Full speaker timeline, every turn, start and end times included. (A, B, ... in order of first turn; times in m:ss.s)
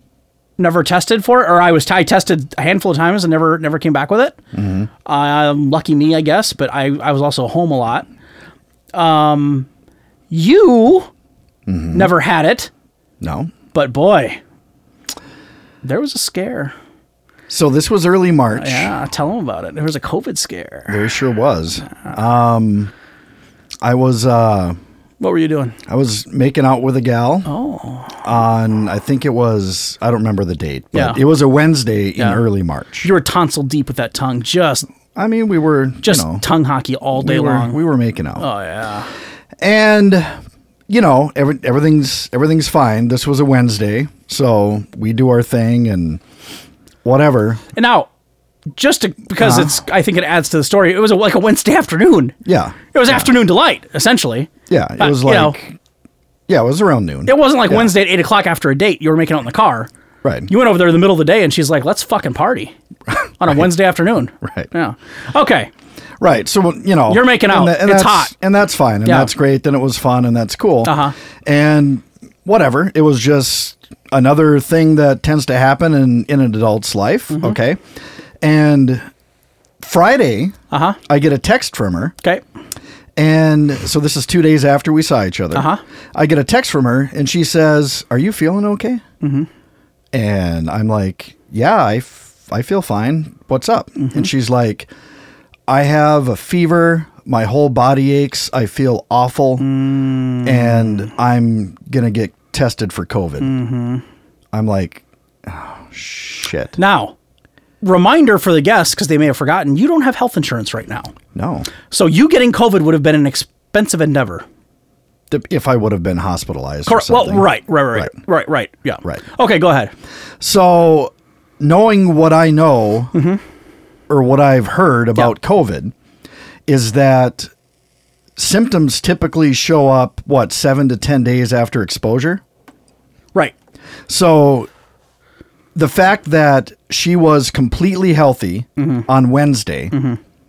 0:00.6-0:04.4 A
0:04.5-0:04.9 B
0:05.0-0:08.1 A
0:08.9-0:09.7 A
0:10.3-0:11.1 A
0:11.7-0:12.1 B
0:11.9-0:12.7 A
0:13.2-0:13.5 B
0:13.7-0:14.4 A
0:15.8-0:16.7 A
0:17.5-0:18.9 B
0:18.6-0:21.0 A
0:20.9-0:22.9 B
0:23.8-0:24.8 B
0:25.2-0:25.8 A
0:25.9-0:27.5 B
0:27.5-0:28.2 A
0:28.2-0:33.1 B
0:30.9-0:31.2 A
0:33.0-0:34.9 A
0:35.2-0:36.4 B
0:36.0-0:37.8 A
0:37.1-0:38.5 B
0:38.4-0:39.1 A
0:39.6-0:40.3 B
0:40.9-0:46.2 B
0:47.0-0:47.6 B
0:47.8-0:48.1 A
0:48.8-0:52.4 A
0:49.4-0:49.8 B
0:52.4-0:53.3 B
0:52.9-0:55.6 A
0:54.7-0:55.8 B
0:56.5-0:57.9 B
0:57.3-0:59.9 A
1:00.2-1:00.5 B
1:00.5-1:02.8 A
1:03.1-1:03.7 B
1:03.4-1:05.7 A
1:04.4-1:04.7 B
1:06.2-1:17.8 B
1:07.1-1:08.3 A
1:09.0-1:09.3 A
1:10.8-1:11.2 A
1:18.4-1:19.0 B
1:19.8-1:20.6 B
1:20.7-1:21.0 A
1:21.1-1:22.1 B
1:23.2-1:29.0 B
1:25.5-1:25.8 A
1:29.2-1:29.5 A
1:30.1-1:34.9 B
1:34.0-1:34.3 A
1:35.7-1:39.7 B
1:39.6-1:41.1 A
1:40.4-1:43.5 B
1:43.4-1:44.0 A
1:44.5-1:46.8 B
1:46.8-1:47.1 A
1:47.8-1:51.2 A
1:51.3-1:51.7 B
1:51.9-1:54.4 A
1:55.3-1:58.2 B
1:56.9-1:59.9 A
2:00.4-2:03.1 B
2:03.1-2:03.4 A
2:04.1-2:05.9 B
2:06.7-2:07.5 B
2:08.4-2:12.4 B
2:14.1-2:14.7 B
2:15.8-2:19.9 B
2:18.8-2:19.1 A
2:19.9-2:20.2 A